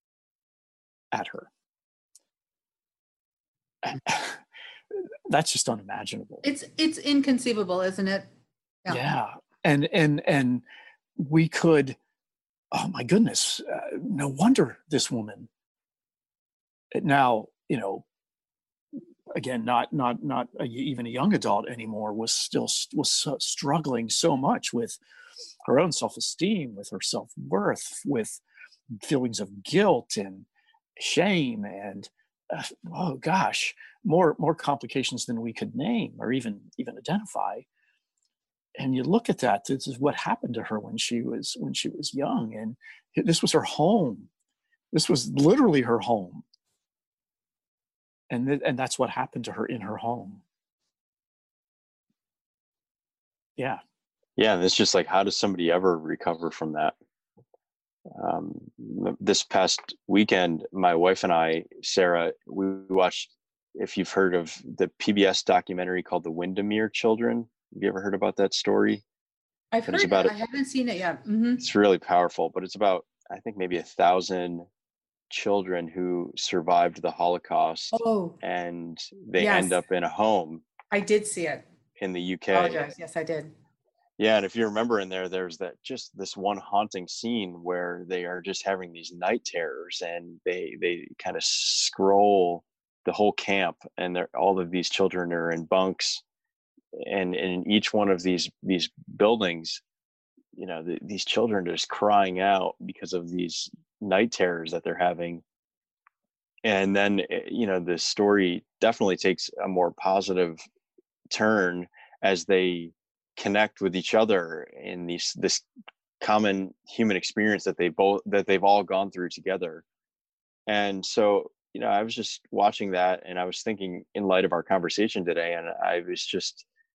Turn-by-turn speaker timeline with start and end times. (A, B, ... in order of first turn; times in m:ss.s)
0:01.1-0:01.5 A
0:03.8-0:04.4 A
0:05.3-0:06.4 A
0:06.4-0:08.2 B
0:08.9-0:10.6 A
0:11.2-0:12.0 A
0:12.7-0:15.5 A
0:16.9-0:18.0 A
0:19.3-0:25.0 A
0:25.6-0:28.4 A
0:29.0-0:30.5 A
0:31.0-0:37.6 A
0:38.8-0:44.3 A
0:44.9-0:46.4 A
0:48.3-0:50.4 A
0:54.4-0:56.9 C
0:58.1-1:09.0 C
1:09.7-1:11.6 B
1:09.9-1:10.3 C
1:11.6-1:14.7 C
1:15.3-1:20.6 C
1:17.9-1:18.4 B
1:19.4-1:19.8 B
1:20.9-1:21.6 B
1:22.0-1:22.9 C
1:22.5-1:23.5 B
1:24.2-1:36.2 C
1:36.9-1:39.8 C
1:40.5-1:45.4 C
1:46.6-1:50.6 C
1:51.3-1:55.6 C
1:56.2-1:59.8 C
2:00.7-2:06.6 C